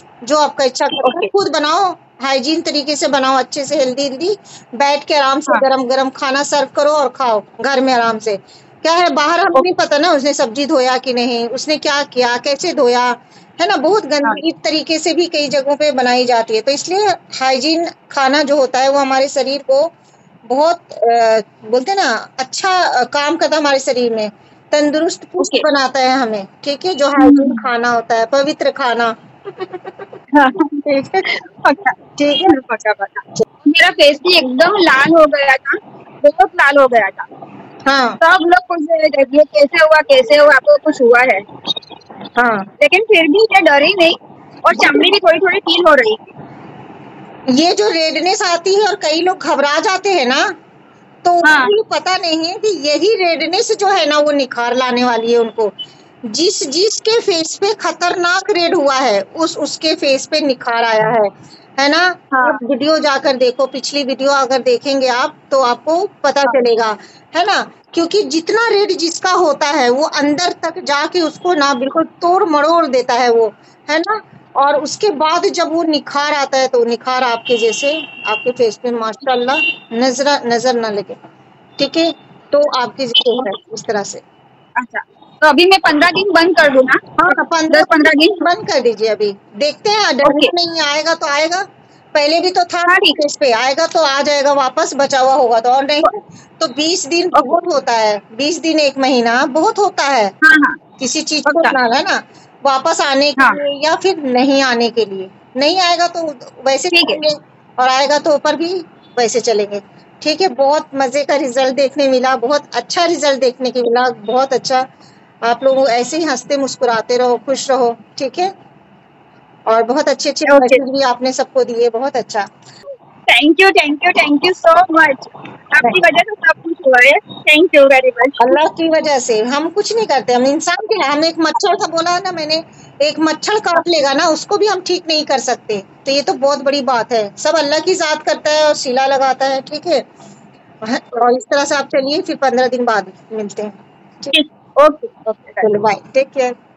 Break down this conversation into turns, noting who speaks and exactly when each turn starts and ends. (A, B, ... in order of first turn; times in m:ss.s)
0:00.2-0:19.9 A
0:01.0-0:01.3 B
0:20.5-0:29.8 A
0:25.4-0:25.7 B
0:27.2-0:27.6 B
0:30.3-0:37.3 B
0:30.8-0:31.3 A
0:32.2-0:32.6 A
0:37.9-0:38.2 A
0:38.2-0:41.4 B
0:42.4-0:42.7 A
0:42.8-0:46.2 B
0:44.8-0:45.0 A
0:47.5-0:50.5 A
0:51.2-0:55.7 A
0:51.4-0:51.8 B
0:56.3-1:21.2 A
1:02.3-1:02.6 B
1:21.8-1:24.2 A
1:24.8-1:27.0 B
1:27.2-1:40.4 A
1:27.7-1:28.4 B
1:30.2-1:30.5 B
1:32.9-1:33.2 B
1:40.4-1:40.8 B
1:41.0-1:54.8 A
1:41.5-1:41.8 B
1:46.9-1:47.2 B
1:55.4-1:58.5 A
1:59.7-2:02.5 A
2:00.5-2:00.8 B
2:03.3-2:08.6 B
2:08.4-2:20.0 A
2:20.8-2:24.4 A
2:24.3-2:25.7 B
2:25.6-2:26.5 A